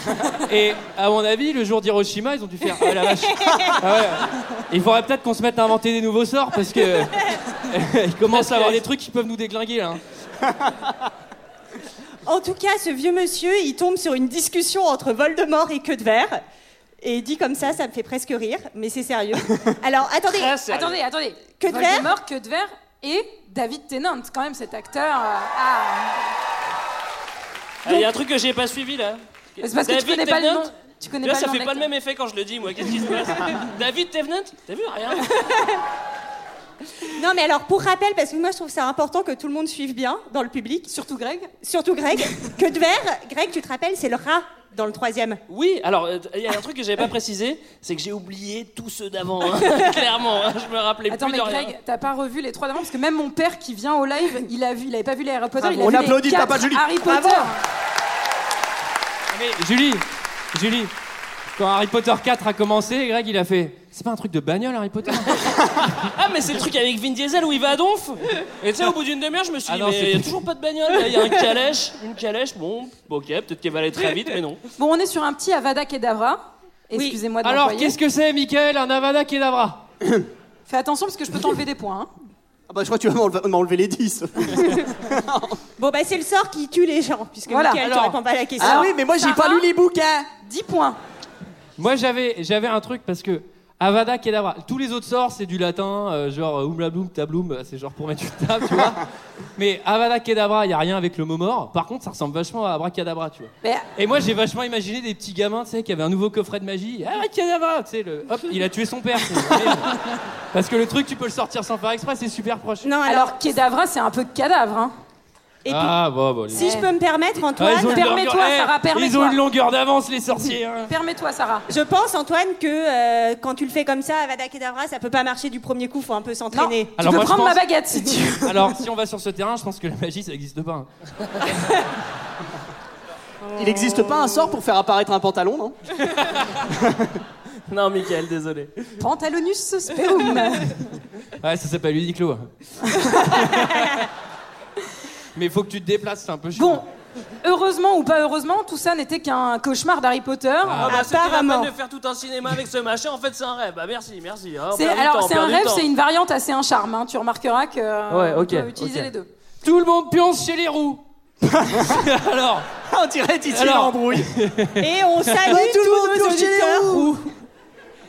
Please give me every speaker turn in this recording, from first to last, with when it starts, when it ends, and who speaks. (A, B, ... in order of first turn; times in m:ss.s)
0:00.3-0:10.0 A
0:03.4-0:03.8 B
0:08.3-0:08.8 C
0:12.2-0:16.4 B
0:17.0-0:20.6 B
0:20.3-0:21.0 C
0:20.7-0:26.2 D
0:21.6-0:22.1 B
0:27.8-0:35.3 C
0:29.6-0:31.9 D
0:37.1-0:40.9 B
0:40.9-0:41.5 D
0:41.6-0:45.4 B
0:45.5-0:51.7 C
0:51.1-0:57.6 D
0:55.7-0:56.9 E
0:57.1-0:57.5 B
0:59.3-1:00.9 A
1:01.6-1:05.6 A
1:06.2-1:14.6 C
1:09.7-1:10.4 A
1:14.8-1:18.0 D
1:16.9-1:17.2 B
1:17.4-1:19.8 A
1:20.7-1:22.1 D
1:22.7-1:25.6 E
1:25.8-1:28.9 B
1:27.5-1:27.8 D
1:27.8-1:28.2 A
1:28.6-1:30.3 E
1:28.6-1:29.7 D
1:30.4-1:31.0 D
1:31.8-1:39.0 A
1:39.6-1:50.0 A
1:50.5-1:52.9 A
1:52.8-1:53.4 B
1:53.0-1:54.9 D
1:55.6-1:56.0 B
1:55.7-1:56.8 A
1:56.5-1:58.1 B
1:56.5-1:56.9 D
1:57.6-2:00.9 A
1:57.8-1:59.4 D
2:00.9-2:01.7 D
2:01.7-2:06.9 B
2:06.5-2:08.6 D
2:07.0-2:07.6 A
2:08.4-2:10.9 A
2:13.4-2:14.5 B
2:13.6-2:15.8 E
2:16.7-2:17.2 E
2:17.7-2:18.9 C
2:19.0-2:20.8 D
2:21.4-2:24.0 A
2:25.4-2:26.8 A
2:26.6-2:26.8 D
2:27.4-2:30.9 D
2:30.6-2:31.0 A
2:30.8-2:35.9 C
2:30.9-2:31.7 B
2:34.7-2:39.3 D
2:38.1-2:39.1 C
2:39.6-2:41.0 A
2:41.4-2:42.0 E
2:41.8-2:42.7 A
2:42.9-2:44.3 E
2:43.5-2:45.6 A
2:44.8-2:47.1 B
2:45.4-2:47.2 E
2:46.9-2:47.2 A